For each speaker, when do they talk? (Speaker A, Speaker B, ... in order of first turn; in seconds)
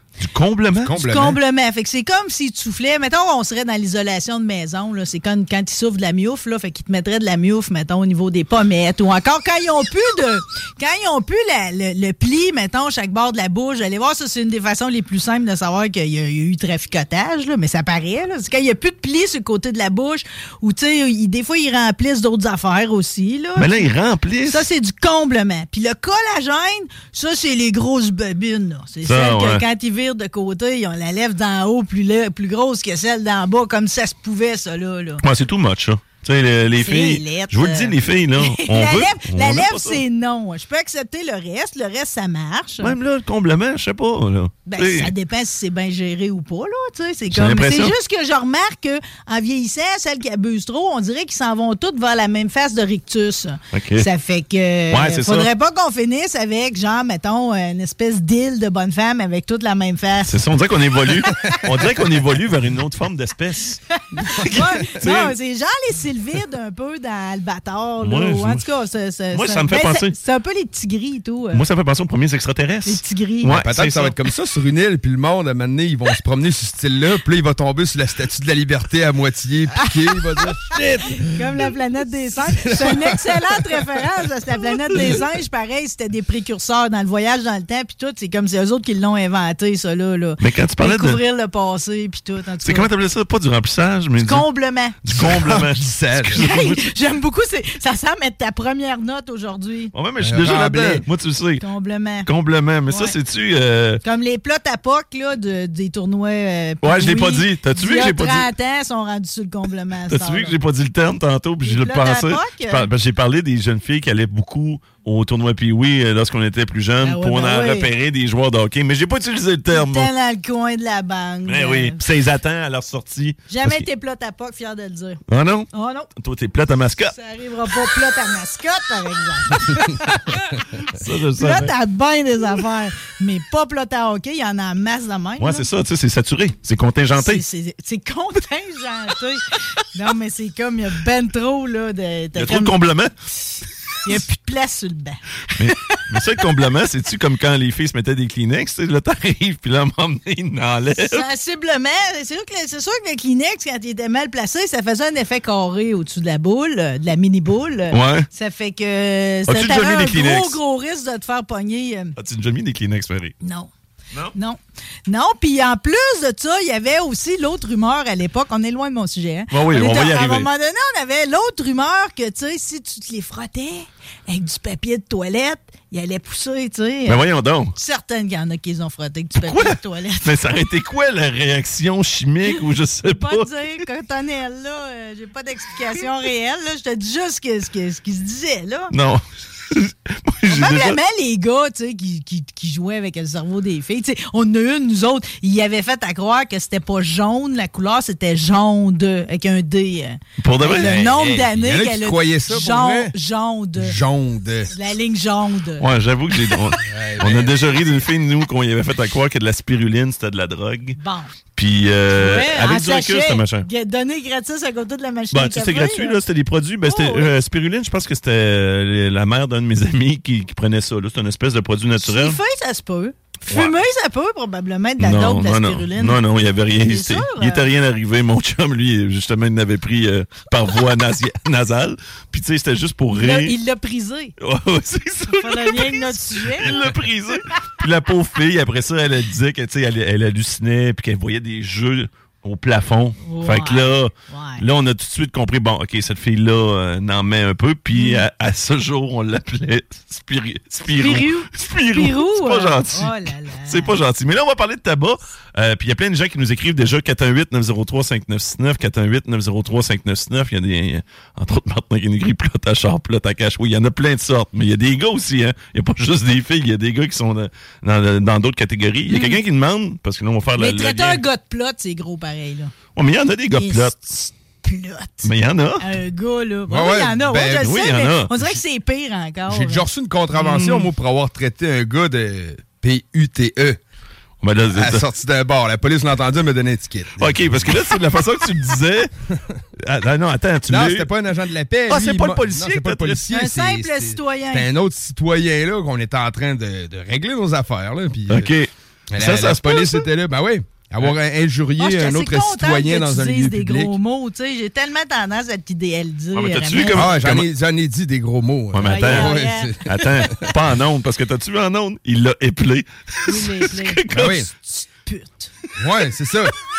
Speaker A: 0.2-1.0, 23.6-24.7, 29.0-29.6, 35.2-40.0, 42.8-45.1, 47.3-47.9, 53.7-54.1, 54.9-55.5, 60.2-63.8, 64.3-65.3, 68.0-68.6, 69.3-70.2, 71.5-74.2, 90.4-91.2, 92.6-94.5, 95.0-96.9, 99.9-101.6, 102.2-104.0, 106.8-108.5, 110.1-120.1, 121.5-123.8, 125.3-127.1, 130.8-131.7, 135.4-137.4, 142.3-143.1, 143.9-144.2, 145.6-151.2, 157.9-158.3, 159.5-160.6, 162.2-163.3, 169.5-170.5, 177.1-177.7, 179.4-183.5, 188.9-191.0, 200.4-201.5, 205.8-211.0, 211.6-213.7, 215.3-222.4, 223.5-223.7, 225.0-233.5, 234.4-271.2, 272.9-274.0, 275.2-275.8, 277.6-278.6, 280.3-280.9, 284.4-285.0, 287.2-289.1, 289.8-291.1, 291.9-293.3, 298.3-300.1, 306.3-307.5, 308.7-314.4
Speaker B: 0.8-1.4, 73.4-81.4, 82.5-83.8, 95.1-96.4, 100.2-101.0, 200.7-203.1, 203.8-204.7, 206.8-207.5, 276.7-277.7, 279.5-283.8, 284.7-287.9, 290.7-298.5, 299.1-303.9, 306.9-310.5, 314.1-314.5, 315.8-316.5
Speaker C: 0.9-23.7, 24.4-35.2, 36.8-43.0, 44.6-60.4, 61.3-61.6, 64.1-71.6, 72.8-73.5, 80.9-92.9, 94.2-95.0, 96.3-99.9, 101.6-102.3, 102.9-103.1, 104.0-110.5, 111.6-112.8, 117.0-117.9, 119.7-122.0, 123.5-126.1, 127.1-135.7, 137.2-142.7, 144.0-146.4, 150.9-162.1, 163.4-163.7, 164.3-177.2, 177.7-180.3, 183.1-188.9, 190.4-204.0, 204.7-205.8, 211.0-211.3, 212.2-216.2, 216.8-217.3, 222.0-226.2, 226.8-227.6, 233.1-234.3, 235.3-236.7, 243.2-244.6, 247.9-248.2, 250.9-253.9, 269.1-269.4, 270.6-272.7, 273.5-279.9, 293.3-294.7, 301.8-307.1, 308.8-310.5, 313.2-315.5